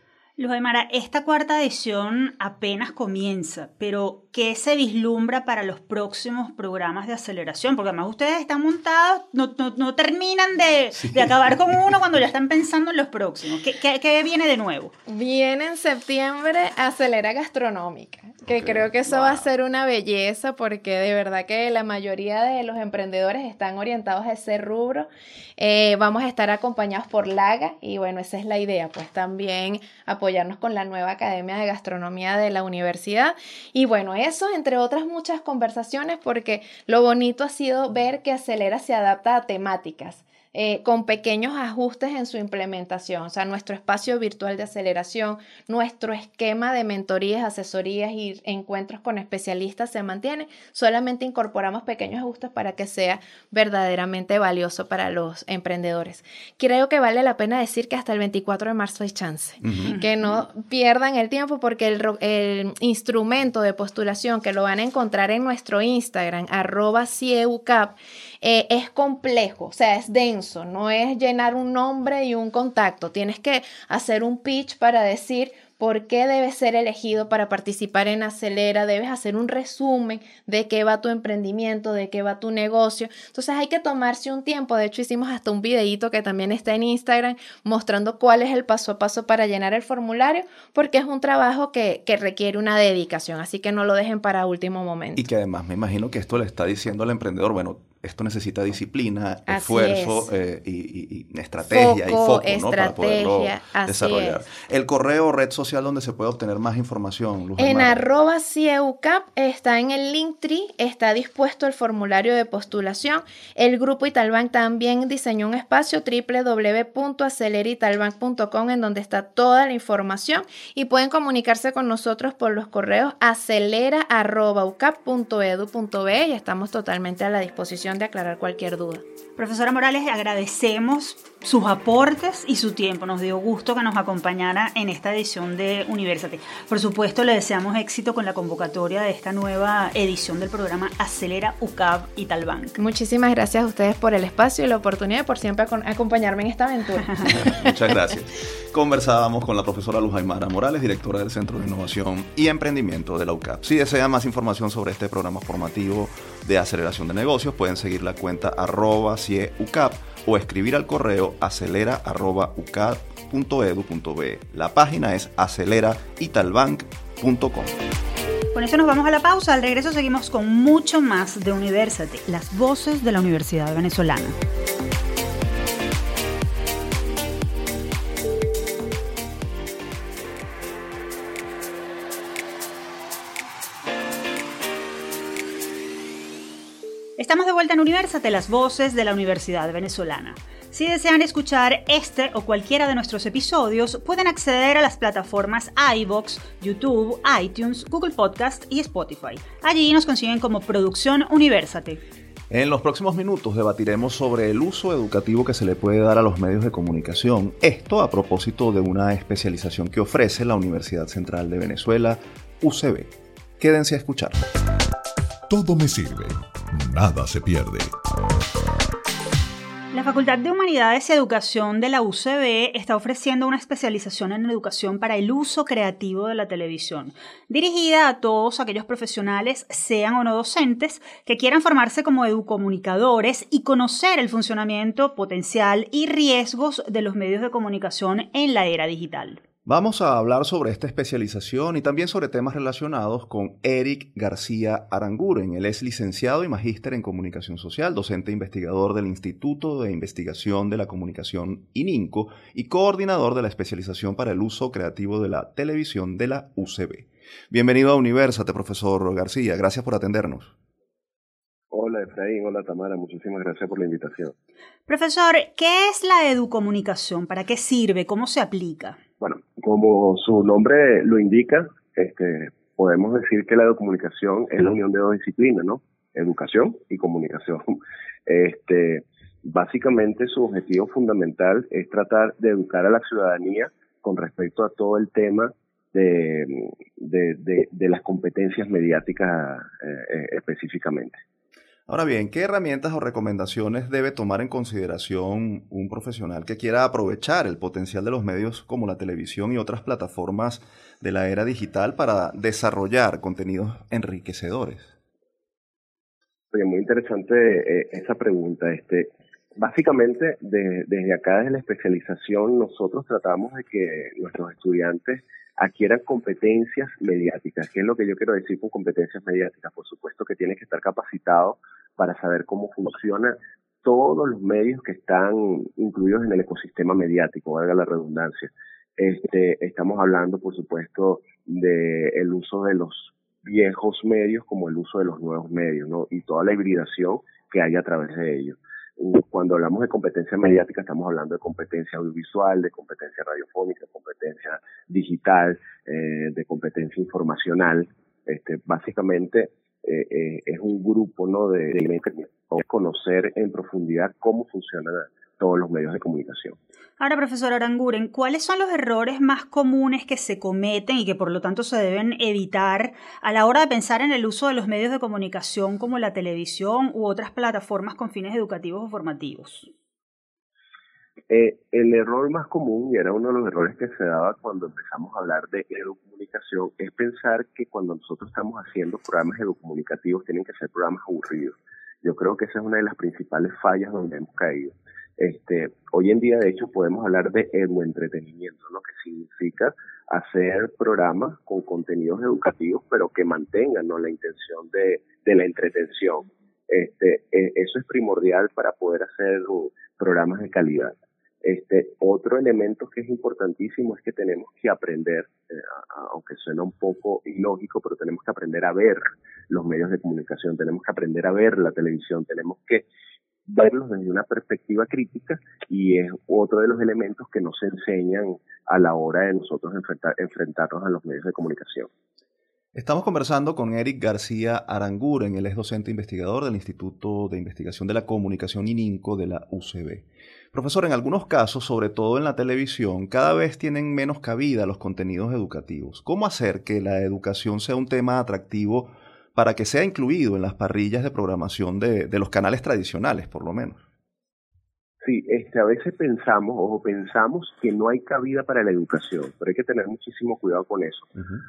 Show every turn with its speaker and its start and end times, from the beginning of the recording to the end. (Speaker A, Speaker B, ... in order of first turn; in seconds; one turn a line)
Speaker A: 0.4-14.9
Speaker B: 11.0-11.3
Speaker C: 15.1-95.2
Speaker B: 18.5-19.4
Speaker B: 59.6-59.9
Speaker A: 59.9-60.4
Speaker B: 95.2-108.0
Speaker C: 99.5-100.3
Speaker C: 101.6-104.4
Speaker C: 107.6-129.0
Speaker A: 129.4-142.8
Speaker C: 142.8-147.7
Speaker B: 147.3-167.8
Speaker A: 168.5-174.4
Speaker A: 187.2-202.0
Speaker B: 202.5-214.4
Speaker D: 215.5-217.9
Speaker A: 219.9-239.4
Speaker B: 239.7-260.5
Speaker E: 261.7-264.3
Speaker A: 264.9-269.0
Speaker E: 269.2-277.8
Speaker E: 278.3-291.2
Speaker B: 291.9-304.9
Speaker E: 306.5-356.6
Speaker A: 357.0-369.7
Speaker E: 371.3-412.9
Speaker E: 413.5-421.9
Speaker B: 422.7-443.8
Speaker E: 445.0-451.1